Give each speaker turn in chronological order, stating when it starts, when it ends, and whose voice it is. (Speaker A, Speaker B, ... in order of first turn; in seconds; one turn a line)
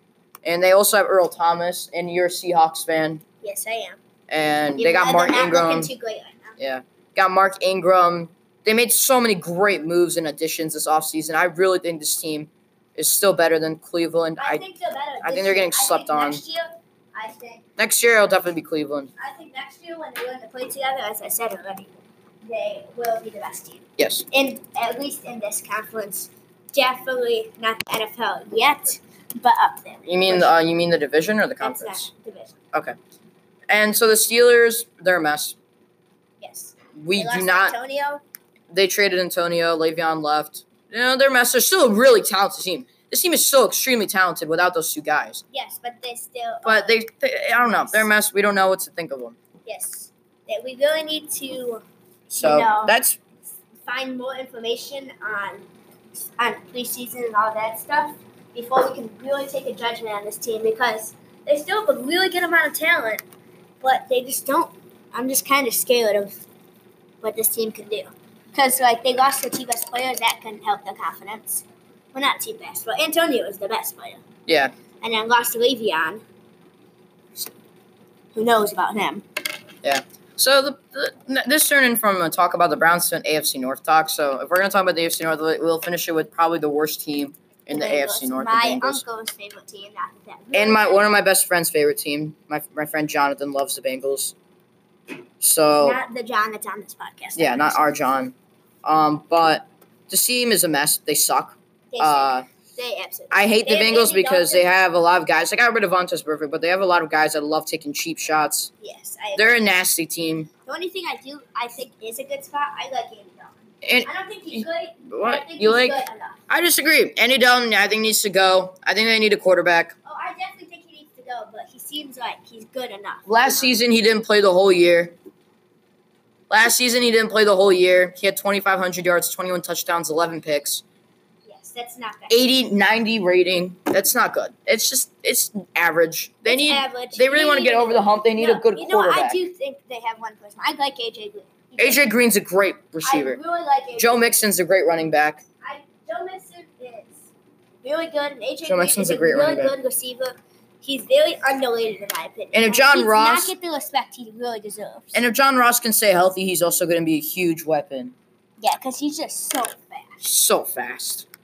Speaker A: 0.4-3.2
Speaker B: 3.4-4.0
Speaker A: 4.3-5.9
Speaker B: 4.8-6.5
Speaker A: 6.6-14.6
Speaker B: 14.4-17.6
Speaker A: 15.2-16.4
Speaker A: 17.8-19.1
Speaker B: 19.2-30.5
Speaker A: 24.0-24.2
Speaker A: 30.1-32.1
Speaker B: 31.6-32.5
Speaker A: 33.7-35.5
Speaker B: 36.4-38.2
Speaker A: 36.9-37.8
Speaker A: 38.7-45.4
Speaker B: 45.5-46.9
Speaker A: 46.6-49.4
Speaker B: 49.6-53.0
Speaker A: 52.4-53.2
Speaker B: 53.8-55.7
Speaker B: 56.4-63.2
Speaker B: 63.8-66.4
Speaker B: 67.2-74.2
Speaker A: 74.5-74.7
Speaker B: 75.0-76.2
Speaker B: 78.3-79.2
Speaker A: 79.8-89.0
Speaker B: 87.7-91.1
Speaker A: 90.5-94.3
Speaker A: 95.4-96.0
Speaker B: 95.8-97.8
Speaker A: 97.3-102.5
Speaker B: 101.9-104.7
Speaker A: 103.3-108.7
Speaker B: 108.8-109.6
Speaker A: 109.3-110.5
Speaker B: 110.7-116.4
Speaker A: 113.8-119.9
Speaker B: 120.0-123.8
Speaker A: 123.2-125.2
Speaker A: 126.5-130.8
Speaker B: 131.4-132.4
Speaker A: 132.3-139.4
Speaker B: 136.4-142.0
Speaker A: 141.8-143.4
Speaker B: 143.0-144.2
Speaker A: 144.0-145.4
Speaker B: 145.6-147.3
Speaker B: 147.8-155.2
Speaker A: 148.6-149.7
Speaker A: 152.5-153.5
Speaker A: 155.1-158.1
Speaker B: 158.6-160.2
Speaker A: 160.2-161.2